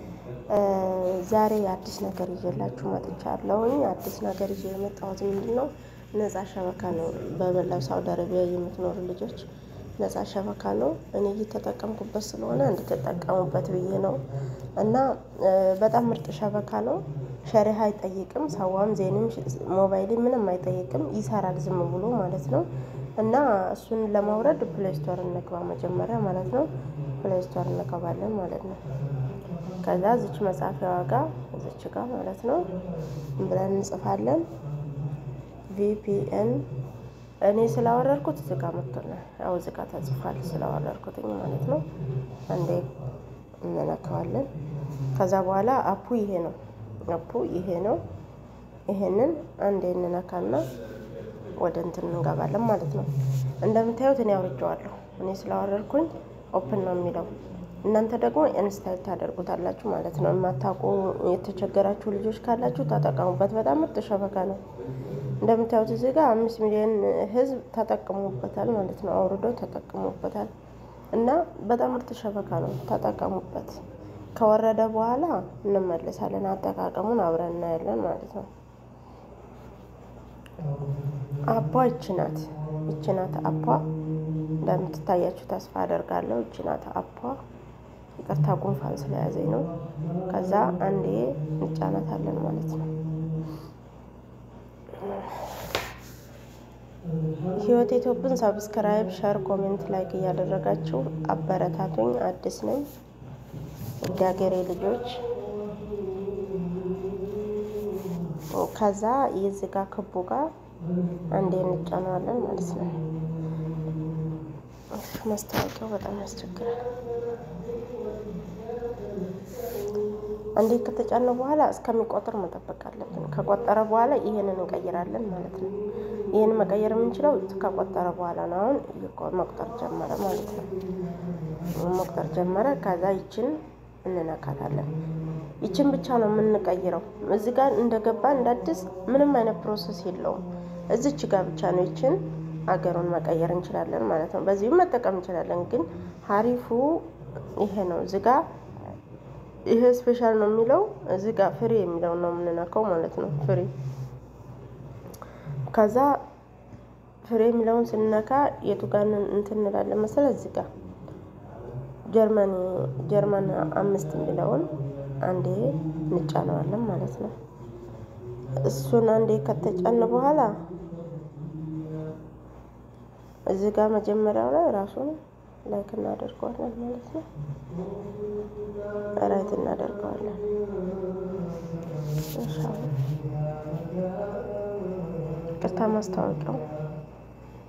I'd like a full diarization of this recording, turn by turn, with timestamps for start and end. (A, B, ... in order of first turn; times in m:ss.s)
0:00.5-0:28.8 A
0:29.8-0:32.8 A
0:33.4-0:34.5 A
0:35.7-0:36.7 A
0:37.4-0:41.9 A
0:42.5-0:42.9 A
0:43.6-0:44.5 A
0:45.1-0:48.0 A
0:48.9-0:50.7 A
0:51.6-1:04.6 A
1:05.4-1:10.5 A
1:11.1-1:13.8 A
1:14.4-1:18.5 A
1:21.5-1:23.9 A
1:24.6-1:27.4 A
1:28.2-1:29.7 A
1:30.3-1:32.9 A
1:35.0-1:35.4 A
1:37.5-1:42.9 A
1:44.0-1:45.3 A
1:48.5-1:50.5 A
1:51.3-1:53.0 A
1:54.9-1:56.9 A
2:00.6-2:05.7 A
2:06.3-2:10.7 A
2:11.7-2:14.9 A
2:15.6-2:28.5 A
2:29.7-2:33.7 A
2:35.7-2:36.2 A
2:37.2-2:40.7 A
2:42.1-2:44.7 A
2:45.2-2:47.4 A
2:48.6-2:50.6 A
2:53.5-2:57.3 A
2:59.2-3:00.5 A
3:02.3-3:03.0 A
3:05.6-3:06.7 A